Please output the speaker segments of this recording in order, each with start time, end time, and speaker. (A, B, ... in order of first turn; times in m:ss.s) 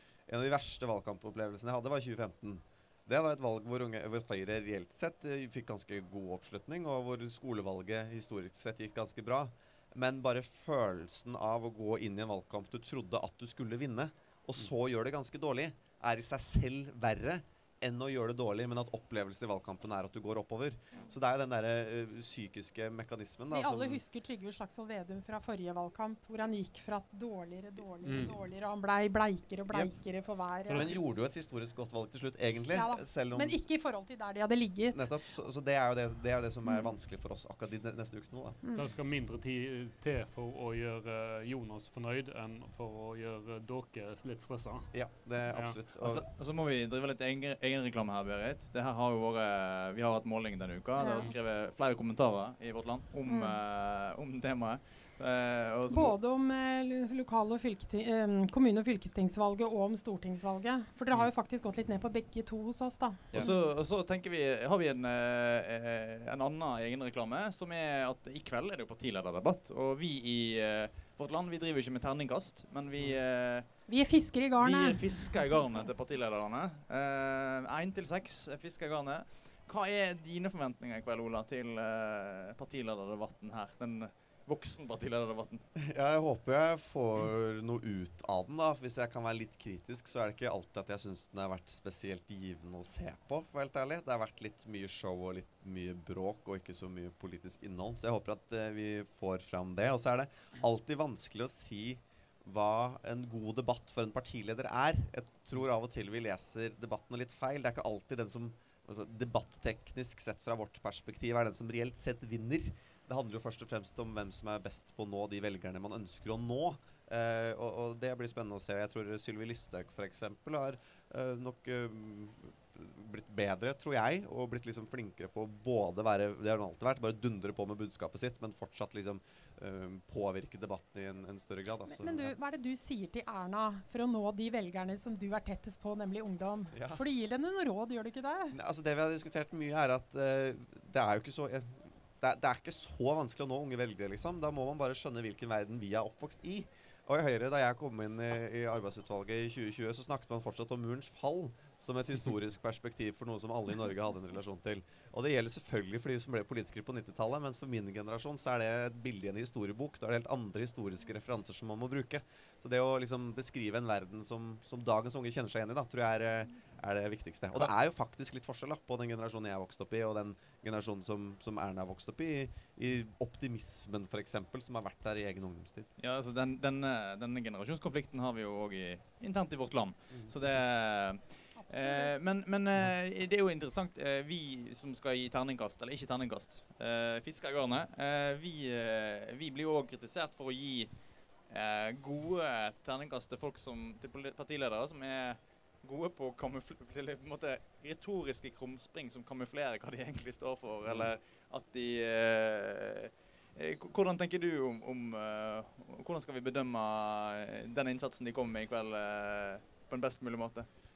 0:00.3-0:24.0 A
0:23.5-0:31.0 B
0:28.0-0:28.3 C
0:30.7-0:31.0 C
0:30.7-0:33.6 A
0:32.7-0:35.1 B
0:34.9-0:38.6 A
0:36.6-0:36.9 B
0:38.7-0:44.9 C
0:44.9-0:46.2 A
0:45.5-0:45.8 C
0:46.0-0:56.2 D
0:51.0-0:51.3 B
0:53.2-0:53.6 B
0:55.9-1:03.7 B
1:03.3-1:13.9 D
1:13.9-1:15.4 B
1:14.6-1:25.7 D
1:25.8-2:12.3 A
2:11.9-2:18.6 B
2:16.7-2:17.0 A
2:18.5-2:55.9 A
2:56.0-3:10.9 D
3:01.5-3:02.3 B
3:11.5-3:30.7 D